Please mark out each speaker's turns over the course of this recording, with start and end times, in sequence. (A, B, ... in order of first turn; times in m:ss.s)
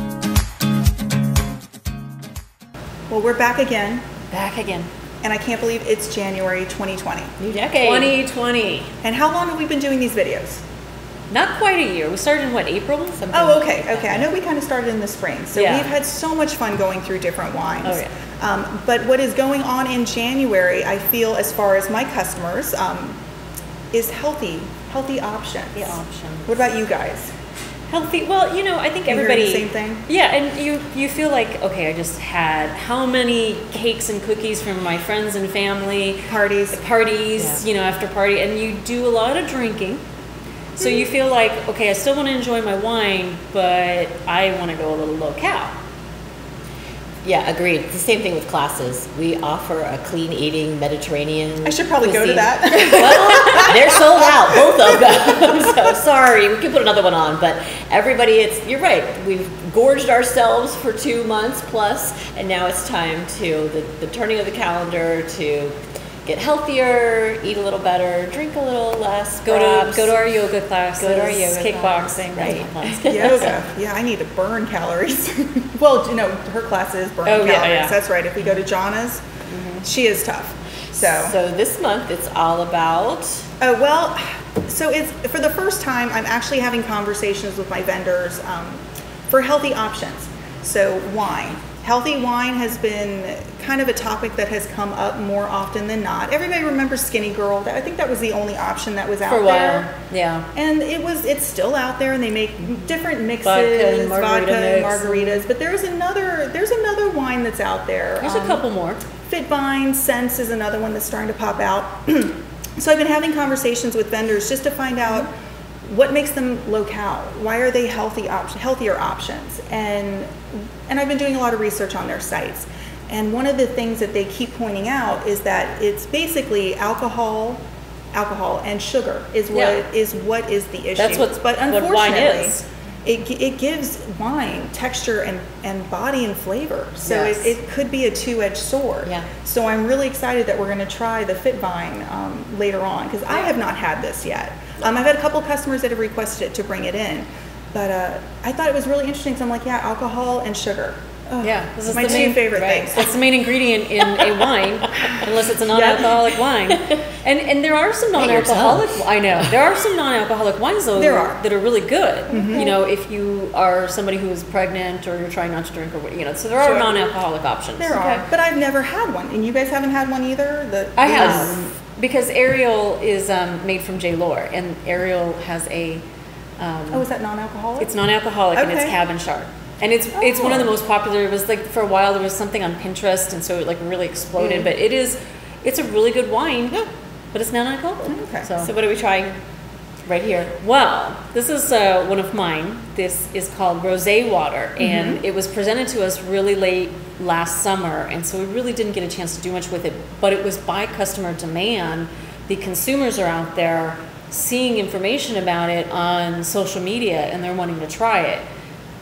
0:03.1-0:04.0 A
0:04.3-0:04.9 B
0:05.2-0:07.4 A
0:07.4-0:08.2 C
0:07.8-0:08.9 B
0:09.0-0:10.6 A
0:11.3-0:13.2 B
0:13.2-0:14.3 C
0:13.3-0:23.2 A
0:15.5-0:15.9 B
0:23.9-0:27.3 A
0:25.8-0:26.5 B
0:27.9-0:40.0 B
0:29.1-0:30.0 A
0:36.3-0:36.8 A
0:37.4-0:37.6 C
0:40.8-0:45.8 B
0:40.8-0:41.1 A
0:47.2-1:10.2 C
0:51.6-0:55.8 A
0:53.4-0:53.7 B
1:09.4-1:13.5 B
1:11.0-1:13.6 C
1:11.6-1:19.2 A
1:17.2-1:18.0 B
1:19.5-1:19.9 B
1:19.8-1:21.4 A
1:20.9-1:23.5 C
1:23.6-1:39.9 A
1:39.2-1:40.5 B
1:40.6-1:48.7 A
1:43.4-1:45.4 B
1:48.2-1:49.0 B
1:49.3-1:55.3 A
1:55.8-2:33.1 A
2:09.5-2:09.8 B
2:11.0-2:12.6 B
2:17.0-2:17.6 B
2:19.0-2:19.3 C
2:31.4-2:48.2 B
2:31.9-2:33.1 C
2:34.2-2:34.5 C
2:35.7-2:36.2 A
2:38.2-2:39.5 C
2:41.0-2:41.4 A
2:42.3-2:42.8 A
2:46.6-2:47.2 A
2:47.8-2:51.7 A
2:51.0-2:56.0 B
2:51.1-2:51.6 C
2:56.6-2:57.1 B
2:56.9-2:58.0 A
2:57.8-3:06.8 B
2:58.5-2:59.0 A
3:00.2-3:00.7 A
3:04.4-3:04.7 C
3:07.3-3:08.7 B
3:08.1-3:08.5 A
3:08.5-3:09.4 C
3:10.1-3:10.6 C
3:10.6-3:28.4 B
3:14.8-3:15.2 A